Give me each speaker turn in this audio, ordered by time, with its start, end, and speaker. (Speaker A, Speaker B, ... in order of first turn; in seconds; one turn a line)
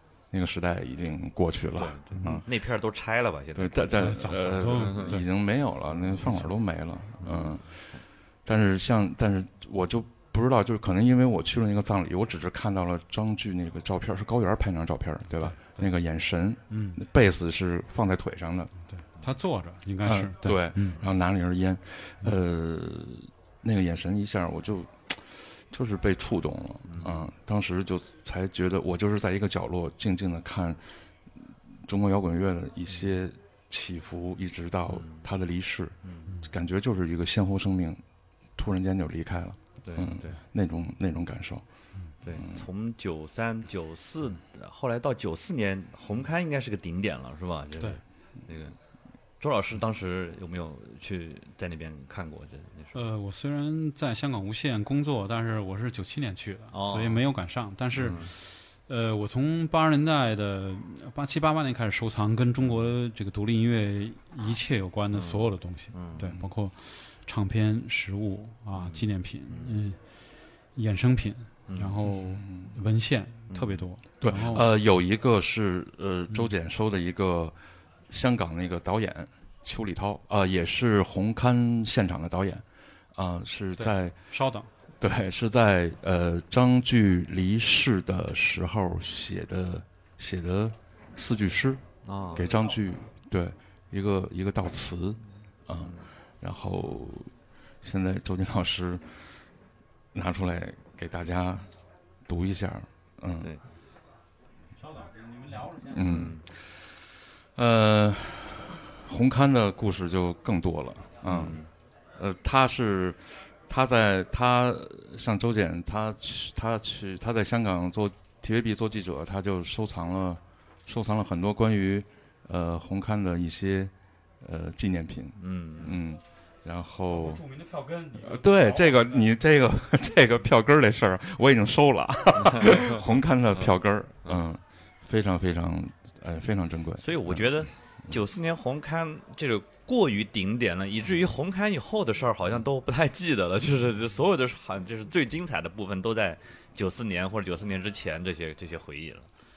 Speaker A: 0.3-2.4
Speaker B: 1.8-5.2
Speaker A: 3.5-18.7
Speaker C: 4.0-5.2
Speaker B: 5.9-6.3
Speaker B: 7.2-8.0
Speaker C: 15.4-15.8
Speaker C: 16.7-17.0
Speaker C: 18.9-21.0
Speaker A: 20.0-30.8
Speaker B: 26.8-27.3
Speaker A: 31.8-38.0
Speaker B: 34.9-35.2
Speaker B: 36.0-36.3
Speaker A: 38.5-41.6
Speaker B: 39.8-40.4
Speaker B: 42.2-48.8
Speaker A: 42.3-42.6
Speaker B: 49.4-53.0
Speaker C: 52.9-70.0
Speaker B: 56.7-57.2
Speaker B: 57.9-58.3
Speaker B: 62.6-62.9
Speaker B: 65.1-66.5
Speaker B: 68.7-69.8
Speaker C: 70.7-74.6
Speaker B: 71.7-72.1
Speaker A: 72.3-72.7
Speaker B: 73.5-73.9
Speaker A: 74.2-77.5
Speaker A: 78.1-82.6
Speaker A: 83.1-84.2
Speaker C: 83.8-84.7
Speaker A: 85.0-91.8
Speaker B: 92.0-92.5
Speaker A: 92.3-99.0
Speaker B: 95.8-96.1
Speaker A: 100.1-101.7
Speaker A: 102.3-103.5
Speaker A: 105.8-106.4
Speaker B: 105.9-106.4
Speaker A: 107.5-111.5
Speaker B: 111.2-111.7
Speaker A: 112.2-127.4
Speaker B: 125.4-126.0
Speaker C: 127.1-129.2
Speaker A: 128.2-137.7
Speaker B: 132.4-133.0
Speaker B: 137.0-149.3